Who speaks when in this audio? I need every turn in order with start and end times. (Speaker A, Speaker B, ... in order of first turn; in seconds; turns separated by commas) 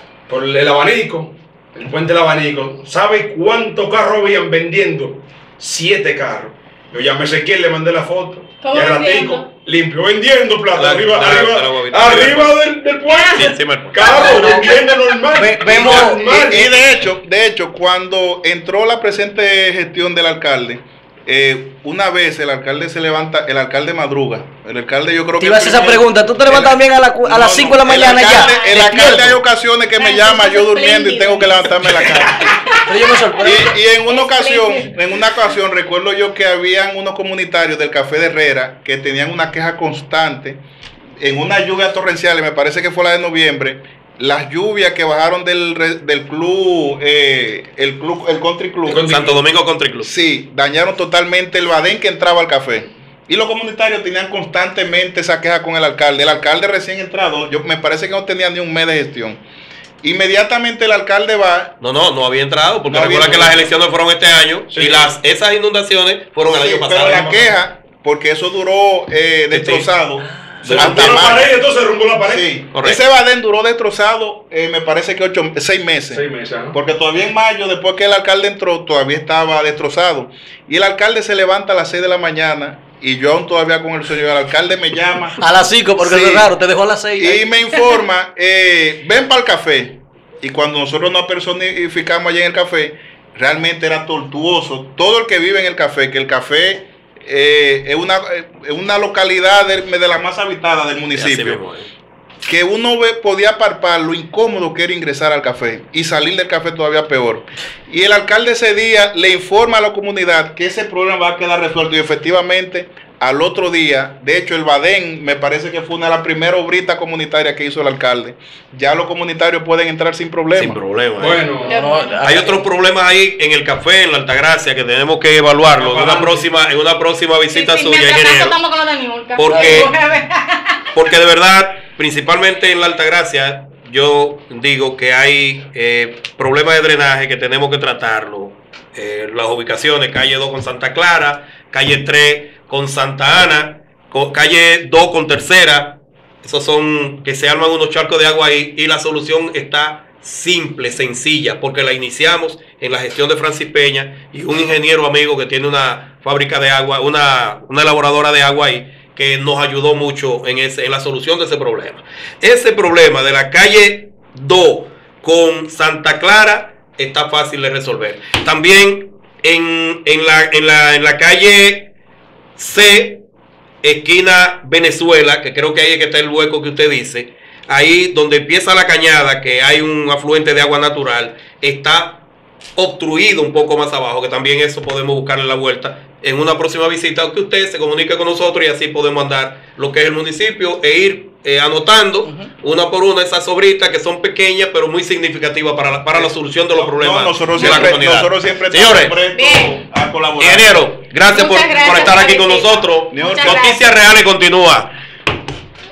Speaker A: 0.3-16.8, Speaker B: 8.6-9.5, Speaker C: 10.8-12.7, Speaker B: 13.1-15.0, Speaker C: 13.3-14.3, Speaker D: 14.0-14.8, Speaker D: 15.3-16.2, Speaker E: 16.1-32.6, Speaker D: 25.4-29.4, Speaker B: 28.1-28.9, Speaker B: 30.0-35.4, Speaker D: 32.8-33.7, Speaker E: 33.4-40.6, Speaker E: 41.2-49.2, Speaker C: 48.9-50.1, Speaker A: 48.9-49.3, Speaker E: 50.0-59.4, Speaker E: 60.0-61.8, Speaker C: 61.8-67.6, Speaker E: 62.9-63.7, Speaker A: 64.7-65.2, Speaker E: 66.5-71.5, Speaker C: 69.5-69.9, Speaker C: 70.6-71.4, Speaker A: 70.6-72.5, Speaker E: 72.2-86.5, Speaker C: 72.7-73.0, Speaker A: 76.1-76.8, Speaker D: 85.4-87.5, Speaker E: 87.2-101.6, Speaker C: 101.2-101.9, Speaker E: 102.5-120.8, Speaker C: 120.6-121.5, Speaker A: 121.2-121.8, Speaker D: 121.6-122.6, Speaker B: 121.6-122.2, Speaker C: 122.2-128.6, Speaker A: 125.8-126.5, Speaker B: 127.5-130.9, Speaker C: 129.4-129.9, Speaker D: 129.4-129.9, Speaker C: 130.9-171.9, Speaker C: 172.6-173.2, Speaker C: 173.8-182.2, Speaker C: 182.8-199.2, Speaker D: 192.2-192.5, Speaker E: 196.1-200.9, Speaker B: 199.3-199.8, Speaker C: 200.4-204.9, Speaker B: 201.3-203.8, Speaker E: 203.1-203.7